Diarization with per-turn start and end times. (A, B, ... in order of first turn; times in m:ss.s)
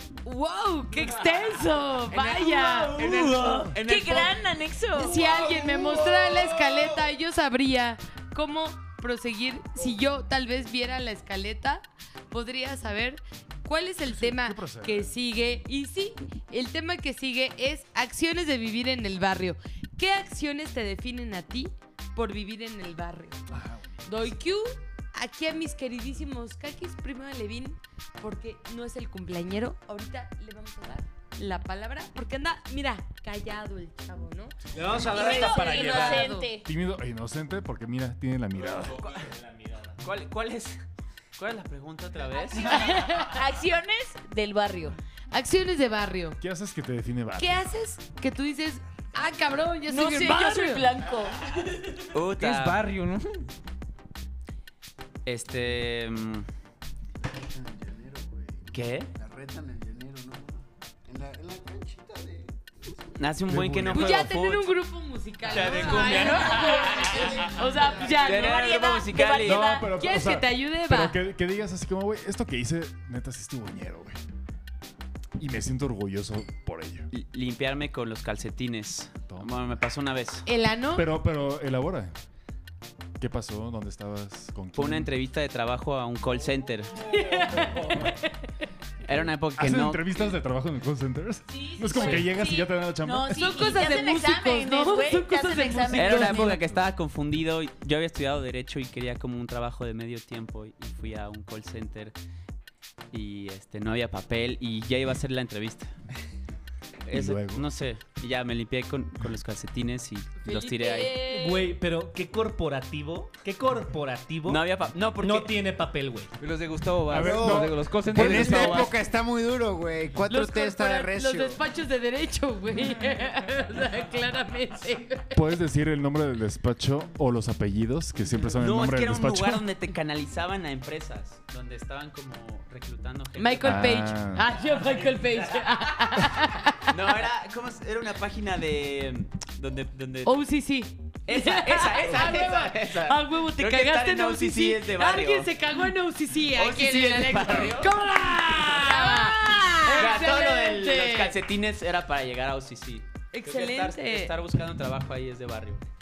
0:00.2-0:03.0 A
0:02.2-0:05.2 B
0:02.9-0:04.3 C
0:04.9-0:23.4 A
0:05.3-0:06.0 C
0:14.1-0:15.1 D
0:23.5-0:24.3 D
0:24.0-0:34.5 A
0:34.7-0:36.3 E
0:35.1-0:36.6 B
0:35.1-0:36.5 A
0:36.6-0:39.0 D
0:40.0-0:40.8 F
0:41.4-0:43.0 F
0:42.6-0:43.3 A
0:43.3-0:45.0 B
0:45.3-0:46.4 A
0:46.4-0:47.6 D
0:47.4-0:50.9 A
0:49.9-0:51.6 B
0:52.1-0:52.8 F
0:52.4-0:53.4 G
0:55.2-0:56.4 F
0:57.6-1:02.5 C
0:58.7-0:59.1 F
1:03.2-1:04.6 F
1:03.5-1:04.2 D
1:03.9-1:09.0 A
1:05.5-1:06.9 F
1:05.6-1:06.3 C
1:05.7-1:07.3 B
1:07.1-1:08.2 C
1:08.2-1:09.6 F
1:08.2-1:09.9 B
1:09.4-1:14.2 D
1:09.6-1:11.2 A
1:15.4-1:17.1 D
1:17.1-1:20.4 F
1:20.4-1:21.0 A
1:20.9-1:22.1 D
1:23.2-1:25.1 D
1:24.7-1:26.9 F
1:27.1-1:28.2 A
1:29.0-1:30.2 F
1:29.6-1:33.3 D
1:31.5-1:32.7 A
1:31.7-1:36.5 B
1:33.3-1:36.6 A
1:35.9-1:42.1 F
1:43.1-1:45.9 F
1:47.0-1:51.1 F
1:47.1-1:47.6 D
1:50.4-1:51.7 B
1:51.2-1:56.3 E
1:54.4-1:55.5 F
1:56.4-1:59.0 G
1:57.1-1:58.8 D
1:57.1-2:01.6 C
2:00.3-2:05.4 A
2:05.3-2:09.6 D
2:08.5-2:13.7 F
2:13.4-2:16.8 A
2:13.6-2:14.5 D
2:16.9-2:20.3 F
2:20.2-2:31.4 A
2:21.3-2:25.5 F
2:26.5-2:27.9 F
2:28.9-2:30.1 B
2:29.8-2:35.8 F
2:33.3-2:34.3 A